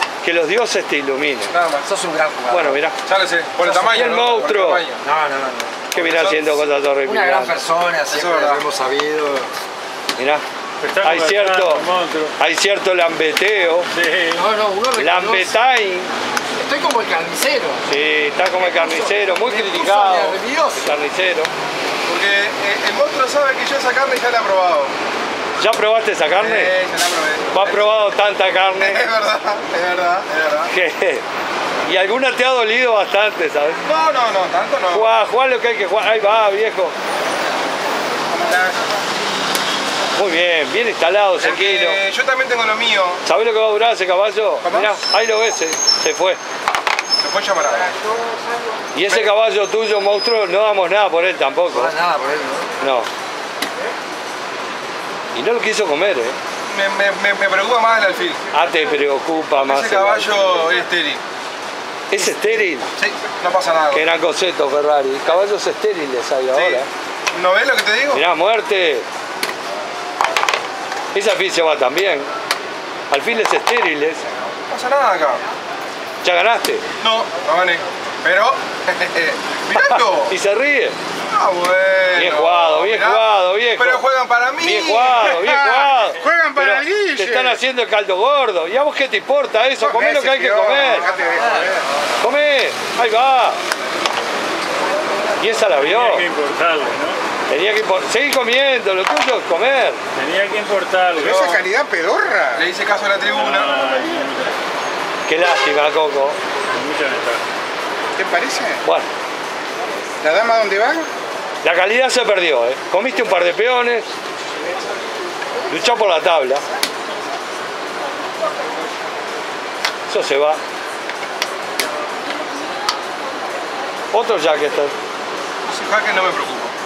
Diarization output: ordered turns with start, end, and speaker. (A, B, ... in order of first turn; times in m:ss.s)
0:00.2-0:01.5 A
0:01.5-0:01.9 B
0:01.8-0:02.8 C
0:02.5-0:02.9 A
0:03.0-0:05.0 B
0:03.6-0:04.0 C
0:03.8-0:04.8 A
0:05.0-0:05.9 C
0:05.9-0:07.6 A
0:05.9-0:06.6 B
0:07.0-0:09.5 C
0:08.1-0:08.6 B
0:10.2-0:10.4 A
0:10.8-0:12.3 D
0:11.0-0:11.8 A
0:12.4-0:13.9 A
0:13.9-0:14.5 D
0:14.3-0:15.5 C
0:14.9-0:16.1 A
0:16.6-0:17.8 C
0:17.8-0:21.5 A
0:18.6-0:21.0 C
0:22.0-0:24.9 B
0:25.6-0:26.7 A
0:26.4-0:27.9 B
0:27.5-0:29.1 A
0:28.8-0:30.7 B
0:30.7-0:31.2 A
0:31.8-0:33.8 A
0:33.8-0:35.1 B
0:34.9-0:36.9 A
0:38.3-0:38.8 E
0:40.1-0:42.0 A
0:41.4-0:43.2 B
0:43.2-0:46.4 A
0:44.6-0:45.0 B
0:47.2-0:47.9 B
0:48.9-0:52.0 A
0:51.7-0:52.7 C
0:52.8-0:53.1 A
0:55.3-0:56.4 A
0:56.7-0:58.4 B
0:58.5-1:00.7 A
0:59.5-1:01.2 B
1:02.1-1:02.9 A
1:02.9-1:04.0 B
1:03.9-1:06.9 A
1:06.5-1:08.2 B
1:08.1-1:09.0 A
1:11.1-1:12.3 A
1:13.1-1:14.2 A
1:14.7-1:15.4 B
1:16.2-1:16.8 A
1:17.0-1:20.3 B
1:19.7-1:21.0 A
1:21.3-1:25.4 B
1:22.1-1:24.0 A
1:24.6-1:31.1 A
1:25.3-1:27.6 E
1:29.8-1:31.8 E
1:30.9-1:31.6 B
1:32.2-1:33.6 A
1:35.4-1:36.2 A
1:35.8-1:37.2 D
1:37.5-1:40.0 A
1:40.1-1:41.5 D
1:41.2-1:42.6 E
1:41.2-1:41.6 B
1:42.5-1:43.8 B
1:43.3-1:44.5 D
1:45.3-1:46.4 A
1:46.7-1:47.4 D
1:48.2-1:48.8 E
1:50.2-1:51.1 E
1:51.6-1:54.0 A
1:55.7-1:56.6 A
2:00.1-2:00.6 A
2:04.1-2:04.9 A
2:05.7-2:06.7 B